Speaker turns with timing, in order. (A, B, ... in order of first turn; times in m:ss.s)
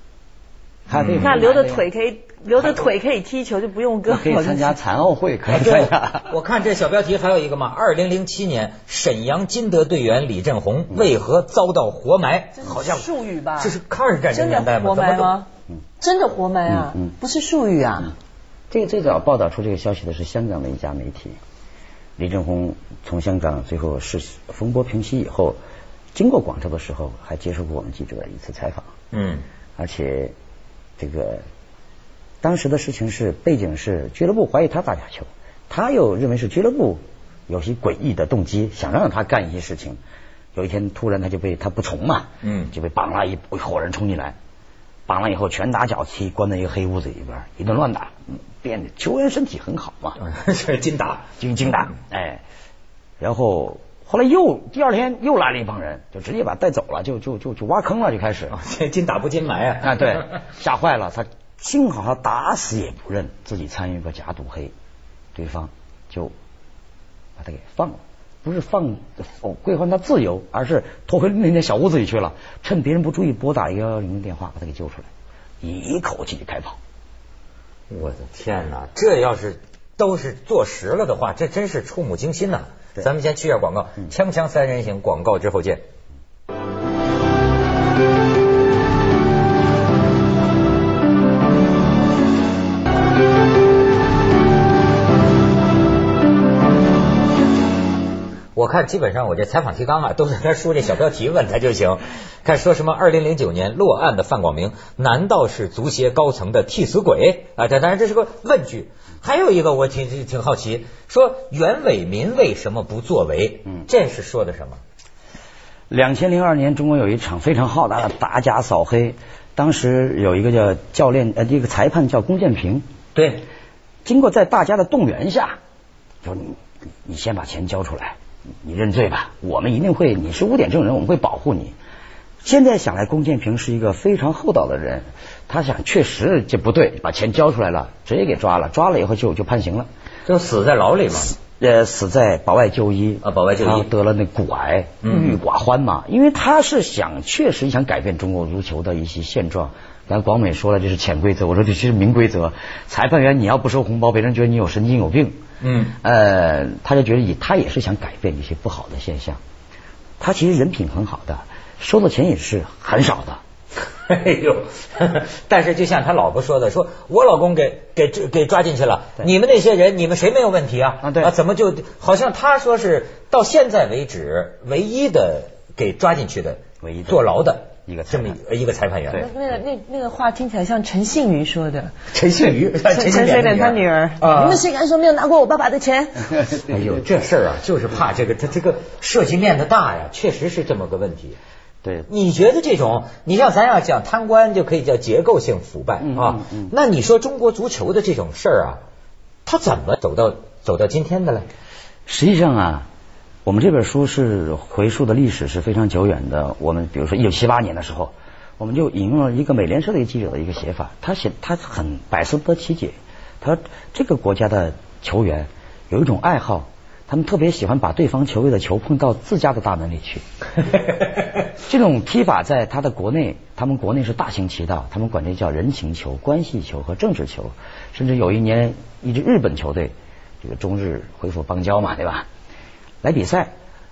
0:00.9-0:01.9 A
0:00.9-0:01.4 B
0:01.2-0:04.8 C
0:04.1-0:06.3 A
0:05.5-0:13.0 B
0:12.5-0:13.8 C
0:13.6-0:15.3 B
0:14.3-0:15.5 C
0:16.0-0:18.1 C
0:16.7-0:17.1 A
0:18.7-0:21.4 A
0:22.2-0:25.6 A
0:26.1-0:28.9 A
0:29.1-0:29.4 B
0:29.8-0:30.3 A
0:31.0-0:31.4 A
0:32.4-0:40.0 A
0:40.5-0:44.4 A
0:42.4-0:42.7 B
0:45.1-0:50.2 A
0:50.2-0:51.3 B
0:51.4-0:52.4 A
0:53.2-0:58.6 A
0:58.5-1:00.4 B
0:59.8-1:04.7 A
1:05.3-1:06.3 A
1:07.4-1:15.1 A
1:15.6-1:16.8 A
1:17.9-1:25.8 B
1:38.5-1:54.8 B
1:55.9-2:02.8 A
2:03.1-2:03.4 B
2:04.0-2:05.6 A
2:06.2-2:11.8 A
2:12.4-2:19.9 A
2:20.2-2:21.4 B
2:21.4-2:35.4 A
2:23.2-2:23.9 B
2:25.0-2:25.4 B
2:35.6-2:36.0 B
2:36.0-2:39.4 A
2:40.2-2:43.4 A
2:44.0-2:59.3 B
2:51.0-2:51.3 A
2:56.8-2:57.2 A
2:57.8-2:58.4 A
2:59.1-3:02.0 C
3:02.1-3:04.6 B
3:02.8-3:06.4 C
3:06.5-3:07.0 A
3:06.6-3:11.4 B
3:11.8-3:12.1 A
3:12.1-3:18.8 B
3:16.0-3:16.7 A
3:19.4-3:21.4 B
3:22.1-3:22.9 A
3:23.4-3:40.2 A
3:41.6-3:52.3 A
3:53.0-3:53.5 A